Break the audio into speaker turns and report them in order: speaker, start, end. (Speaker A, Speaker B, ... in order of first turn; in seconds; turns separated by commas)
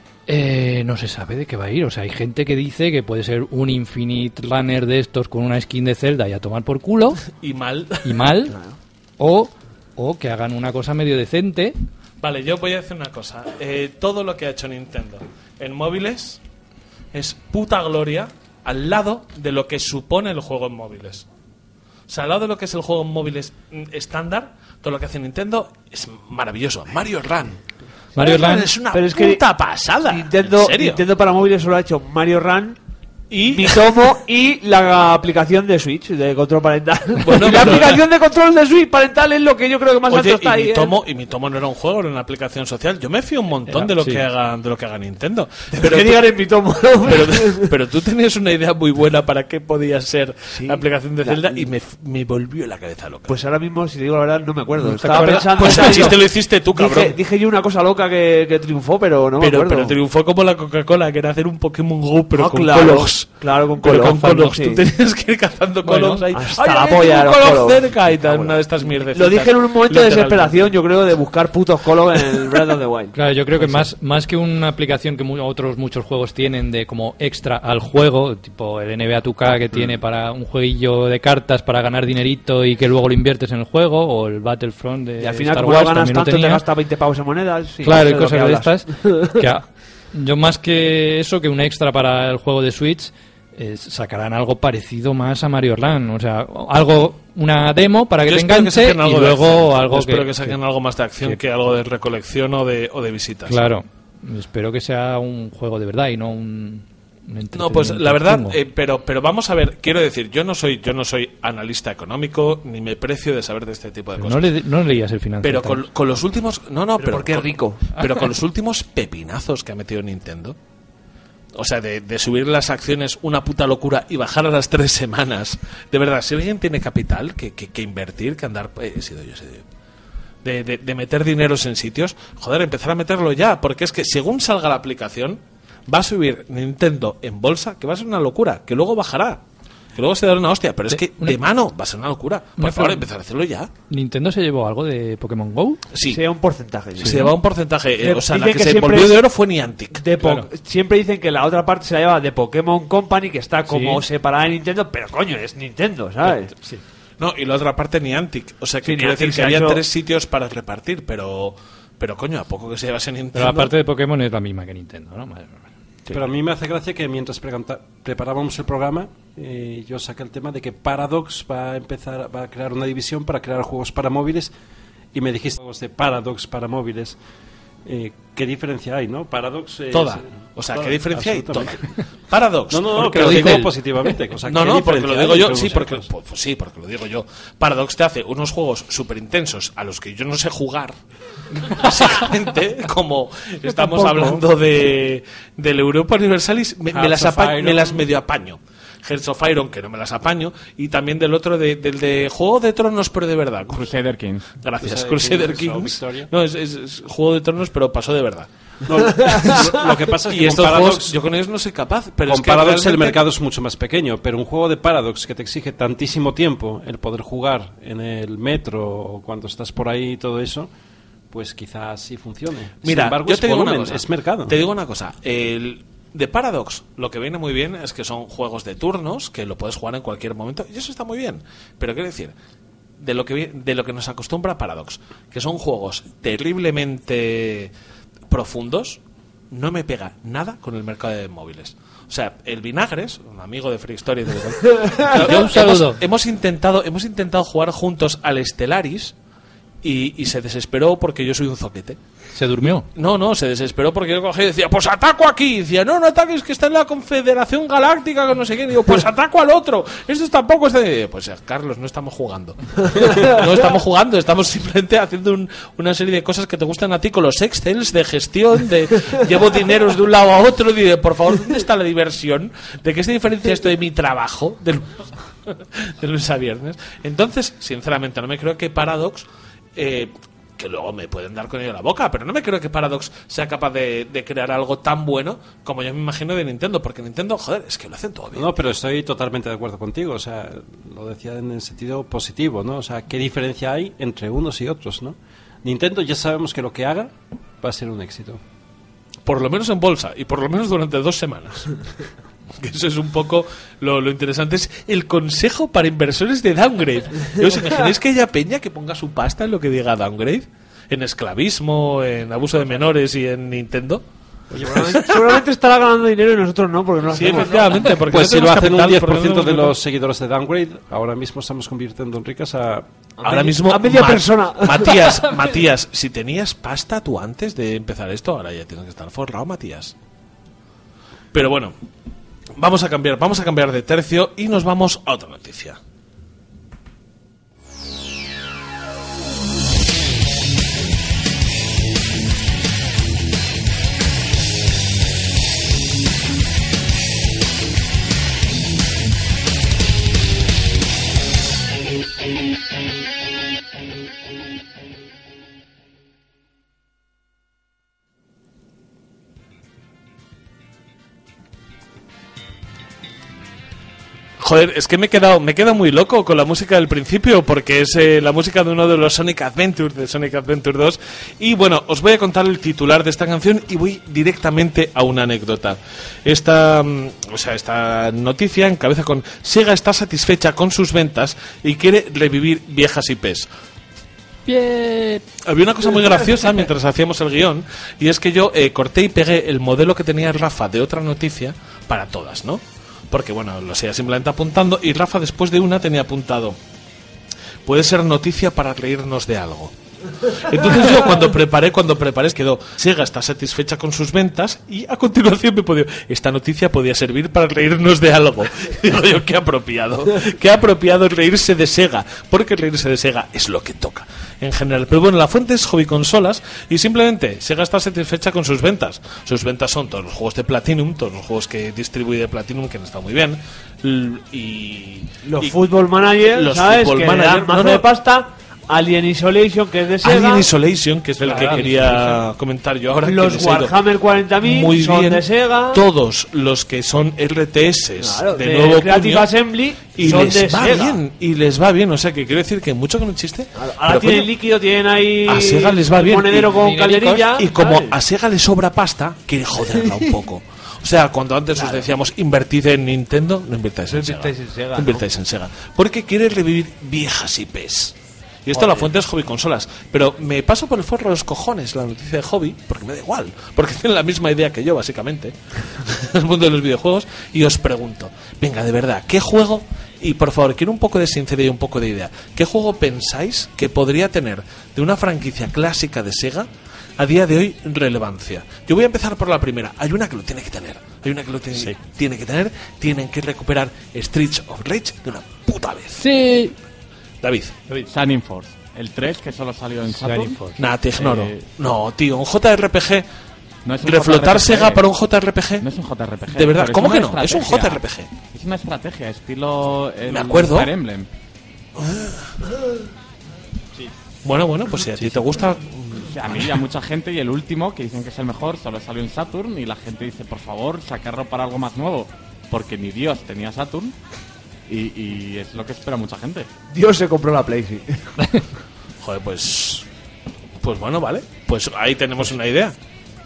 Speaker A: 0.3-7.2, Speaker B: 7.3-8.3, Speaker A: 8.1-8.6, Speaker C: 8.5-8.8, Speaker A: 9.2-11.8, Speaker B: 12.2-16.4, Speaker B: 17.1-21.3, Speaker B: 22.1-27.6, Speaker A: 28.2-28.7, Speaker B: 28.2-31.0, Speaker C: 28.9-29.4, Speaker C: 30.1-32.8, Speaker B: 33.3-33.9, Speaker C: 33.5-40.9, Speaker B: 37.2-38.0, Speaker B: 40.1-46.2, Speaker A: 43.7-44.2, Speaker C: 45.7-47.7, Speaker B: 47.0-53.4, Speaker C: 50.5-51.7, Speaker C: 53.3-60.0, Speaker A: 54.8-56.1, Speaker B: 55.2-57.1, Speaker B: 59.4-70.5, Speaker C: 62.4-64.8, Speaker A: 65.8-66.4, Speaker C: 66.3-73.8, Speaker A: 73.1-86.6, Speaker C: 85.2-89.4, Speaker A: 87.8-100.6, Speaker B: 98.2-103.7, Speaker A: 103.5-108.6, Speaker B: 107.5-114.5, Speaker A: 114.2-115.9, Speaker B: 115.4-120.6, Speaker C: 117.0-117.8, Speaker B: 121.5-129.6, Speaker B: 130.4-139.4, Speaker B: 139.9-143.7, Speaker A: 140.9-141.4, Speaker A: 142.6-143.1, Speaker A: 143.9-145.8, Speaker B: 145.9-146.2, Speaker C: 146.1-147.3, Speaker A: 147.0-147.3, Speaker B: 147.0-150.1, Speaker C: 148.0-149.2, Speaker C: 149.9-156.5, Speaker A: 150.2-150.5, Speaker A: 153.7-154.0, Speaker A: 156.5-156.8, Speaker B: 157.2-163.7, Speaker C: 158.8-159.8, Speaker A: 163.3-165.7, Speaker D: 166.1-174.5, Speaker D: 175.1-177.2, Speaker D: 177.8-181.8, Speaker B: 179.9-183.7, Speaker D: 182.7-186.1, Speaker A: 183.2-183.7, Speaker B: 184.4-190.9, Speaker B: 191.7-203.8, Speaker D: 196.9-198.0, Speaker E: 203.7-204.5, Speaker B: 204.6-208.5, Speaker D: 204.8-206.3, Speaker D: 208.9-211.2, Speaker B: 209.2-213.2, Speaker D: 212.3-220.7, Speaker D: 221.3-224.6, Speaker B: 222.8-232.3, Speaker B: 233.0-237.7, Speaker B: 238.3-239.0, Speaker B: 239.5-249.2, Speaker A: 245.0-246.0, Speaker B: 249.8-252.0, Speaker A: 252.3-252.9, Speaker B: 252.9-288.5, Speaker D: 288.3-298.4, Speaker B: 299.2-301.8, Speaker B: 302.6-314.1, Speaker D: 314.5-315.0, Speaker C: 314.6-317.8, Speaker B: 314.9-315.4, Speaker B: 317.1-319.8, Speaker D: 318.0-322.9, Speaker C: 323.2-325.1, Speaker B: 323.2-329.9, Speaker B: 331.3-331.7, Speaker B: 332.6-335.8, Speaker B: 364.4-383.5, Speaker A: 384.6-385.2, Speaker B: 385.2-396.6, Speaker B: 397.7-425.6, Speaker C: 425.2-430.5, Speaker B: 426.2-427.9, Speaker B: 430.0-433.7, Speaker C: 431.2-432.2, Speaker C: 433.0-435.8, Speaker B: 434.4-439.3, Speaker C: 438.0-441.0, Speaker B: 439.9-444.3, Speaker C: 443.6-447.9, Speaker B: 445.3-446.6, Speaker A: 446.6-447.4, Speaker B: 447.3-486.1, Speaker C: 449.7-450.0, Speaker C: 451.6-451.9, Speaker C: 453.9-455.0, Speaker C: 458.5-458.9, Speaker A: 486.0-486.6, Speaker B: 487.2-487.6, Speaker E: 487.9-490.4, Speaker A: 489.9-490.6, Speaker B: 490.6-493.1, Speaker E: 491.0-491.5, Speaker E: 493.6-494.8, Speaker B: 493.8-495.7, Speaker E: 495.6-501.1, Speaker B: 496.3-498.1, Speaker B: 500.1-500.7, Speaker B: 501.8-502.3, Speaker B: 504.2-506.1, Speaker E: 504.9-505.4, Speaker E: 506.1-514.0, Speaker E: 514.7-516.5, Speaker C: 516.7-518.1, Speaker B: 519.0-519.9, Speaker B: 520.6-522.8